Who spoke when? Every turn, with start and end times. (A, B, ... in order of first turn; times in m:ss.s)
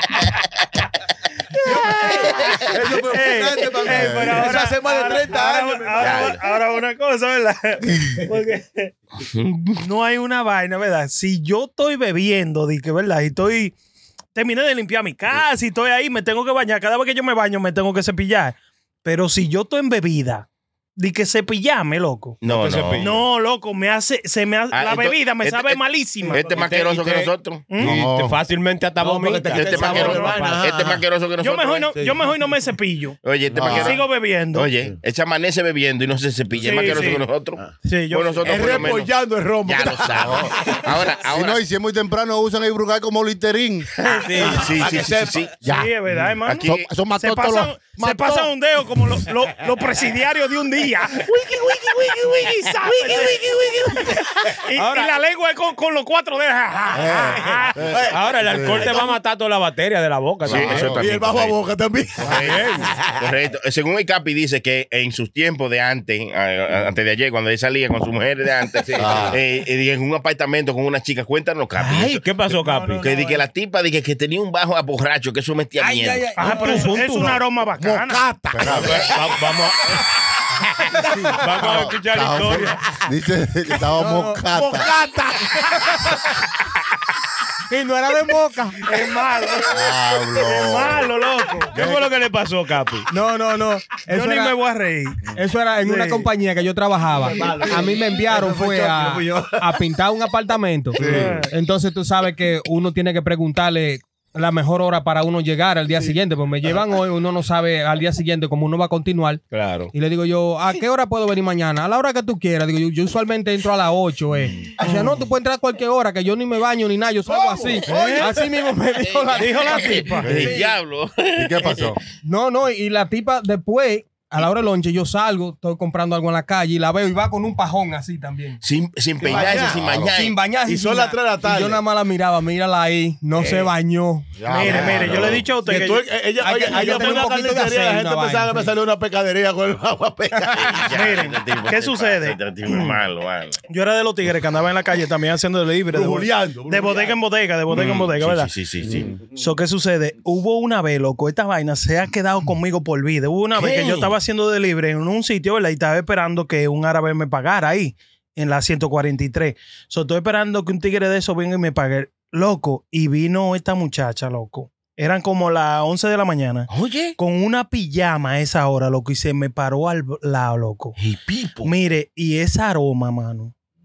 0:01.6-0:08.9 A
0:01.6-0:06.3 B
0:03.9-0:04.5 C
0:06.0-0:06.4 D
0:07.8-0:08.2 C
0:09.2-0:09.8 D
0:09.8-0:13.7 A
0:14.3-0:22.4 A
0:22.4-0:23.1 D
0:22.4-0:23.2 E
0:23.0-0:28.0 A
0:24.7-0:27.6 D
0:26.2-0:26.7 B
0:27.8-0:28.4 C
0:27.8-0:30.6 E
0:29.0-0:31.0 B
0:29.5-0:31.9 D
0:31.4-0:34.7 A
0:31.9-0:32.3 B
0:33.2-0:37.6 D
0:33.5-0:33.9 B
0:33.5-0:34.0 C
0:36.6-0:37.2 A
0:37.8-0:38.9 A
0:38.1-0:39.1 D
0:38.4-0:40.9 B
0:39.6-0:41.6 D
0:40.1-0:40.6 C
0:41.2-0:43.9 C
0:44.0-0:44.6 E
0:44.4-0:45.5 B
0:44.4-0:45.8 D
0:45.6-0:48.5 C
0:45.6-0:57.9 A
0:46.4-0:46.9 D
0:53.5-0:54.6 B
0:54.8-0:55.1 E
0:56.9-0:59.0 C
0:57.6-0:58.2 B
0:58.1-1:00.9 E
1:00.4-1:01.0 C
1:00.5-1:01.6 D
1:00.6-1:03.2 B
1:02.2-1:02.5 C
1:02.2-1:12.2 D
1:02.4-1:02.8 E
1:08.8-1:09.4 B
1:09.0-1:09.4 C
1:11.8-1:13.1 E
1:12.5-1:13.4 F
1:13.0-1:16.5 D
1:15.8-1:17.4 F
1:16.4-1:18.2 A
1:16.4-1:17.4 E
1:17.8-1:19.1 B
1:18.5-1:19.1 C
1:18.6-1:20.0 E
1:21.3-1:22.7 E
1:21.5-1:24.9 C
1:23.9-1:24.5 F
1:24.5-1:25.9 B
1:27.7-1:28.8 F
1:28.8-1:29.8 A
1:29.7-1:31.1 C
1:30.4-1:31.8 A
1:31.7-1:33.1 E
1:31.7-1:32.1 C
1:33.1-1:34.6 F
1:34.0-1:35.3 A
1:35.3-2:00.7 F
1:35.8-1:36.3 A
1:37.2-1:39.7 B
1:41.0-1:41.4 B
1:41.0-1:41.4 C
1:41.0-1:41.5 A
1:49.5-1:49.9 E
1:54.8-1:55.1 A
1:57.2-1:58.5 B
1:57.9-1:58.3 A
1:59.1-2:02.0 D
1:59.3-2:00.3 A
2:00.2-2:00.6 C
2:01.4-2:02.0 C
2:02.2-2:08.6 F
2:08.6-2:10.4 D
2:09.2-2:09.8 B
2:09.3-2:10.1 C
2:09.3-2:14.7 F
2:10.6-2:11.8 B
2:13.4-2:13.7 B
2:14.4-2:15.4 C
2:14.4-2:16.1 A
2:14.6-2:15.4 D
2:15.0-2:20.8 B
2:16.4-2:18.7 F
2:16.7-2:17.4 A
2:20.5-2:23.6 D
2:20.9-2:23.0 A
2:23.7-2:28.5 A
2:25.9-2:27.2 B
2:27.7-2:29.1 D
2:28.8-2:29.2 B
2:29.3-2:51.0 A
2:33.5-2:34.1 D
2:46.7-2:47.2 D
2:51.0-2:51.7 D
2:51.6-2:53.5 A